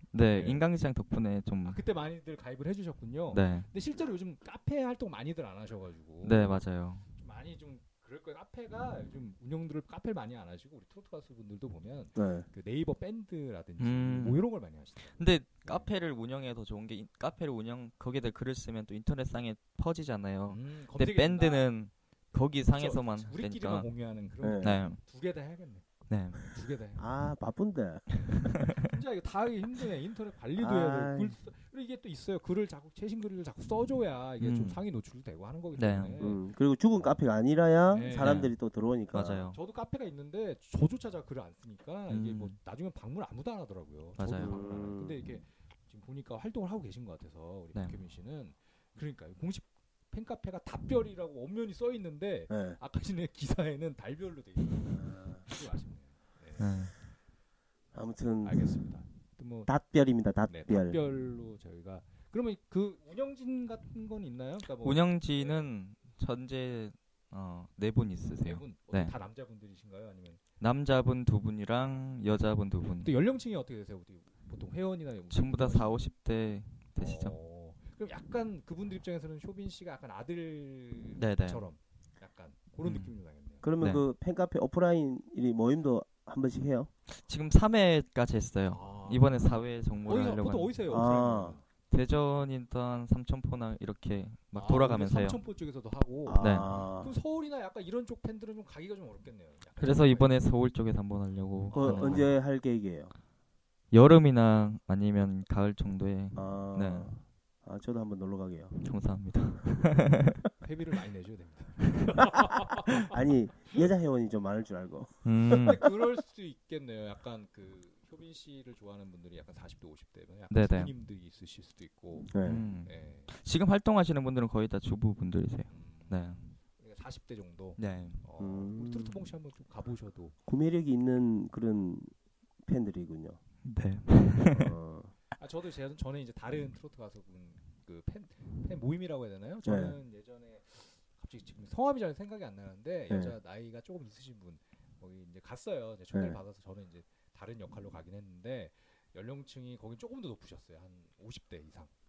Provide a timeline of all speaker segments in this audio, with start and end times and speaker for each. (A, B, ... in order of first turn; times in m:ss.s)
0:00.1-0:01.8 A
0:00.3-0:00.6 B
0:01.6-0:15.9 B
0:03.3-0:03.7 A
0:06.2-0:07.0 A
0:12.2-0:12.5 C
0:13.8-0:14.4 A
0:15.2-0:23.9 A
0:20.5-0:21.7 B
0:22.7-0:25.8 B
0:24.4-0:24.8 C
0:24.6-0:25.0 A
0:26.1-0:26.5 A
0:26.5-0:27.1 B
0:27.0-0:28.2 C
0:28.4-0:28.7 A
0:28.8-0:36.4 B
0:30.6-0:31.4 C
0:34.4-0:34.8 A
0:35.8-0:36.2 A
0:36.2-0:39.4 C
0:37.9-0:38.5 B
0:38.1-0:38.5 A
0:39.1-0:39.6 A
0:39.5-0:56.8 B
0:42.1-0:42.6 A
0:44.2-0:44.6 A
0:44.4-0:45.2 C
0:52.5-0:52.8 C
0:54.9-0:55.4 C
0:56.6-0:56.9 A
0:57.9-0:58.7 C
0:58.4-0:59.7 B
0:59.7-1:01.0 C
1:00.5-1:05.7 B
1:04.8-1:09.1 A
1:08.4-1:10.4 B
1:10.6-1:13.1 A
1:13.0-1:16.1 B
1:15.3-1:17.4 A
1:17.0-1:23.7 B
1:21.2-1:21.6 A
1:22.8-1:23.1 A
1:23.6-1:26.9 C
1:27.2-1:30.8 A
1:28.7-1:31.6 B
1:30.9-1:31.6 C
1:31.9-1:35.4 A
1:34.5-1:40.4 B
1:36.3-1:37.1 C
1:36.4-1:36.7 A
1:39.8-1:42.3 A
1:41.7-1:42.3 B
1:41.7-1:43.1 C
1:43.9-1:47.1 A
1:46.4-1:48.7 C
1:48.8-1:50.4 A
1:50.6-1:53.2 B
1:53.0-1:55.8 C
1:55.2-1:55.8 A
1:55.6-2:02.3 B
2:00.5-2:00.9 A
2:02.3-2:02.7 C
2:02.4-2:06.4 A
2:02.8-2:03.3 B
2:05.7-2:10.4 B
2:07.8-2:08.2 A
2:08.4-2:09.2 C
2:10.5-2:12.1 C
2:12.7-2:13.4 C
2:13.6-2:14.8 A
2:14.5-2:15.1 C
2:15.4-2:31.9 B
2:19.6-2:20.0 C
2:23.1-2:23.4 C
2:26.1-2:26.4 C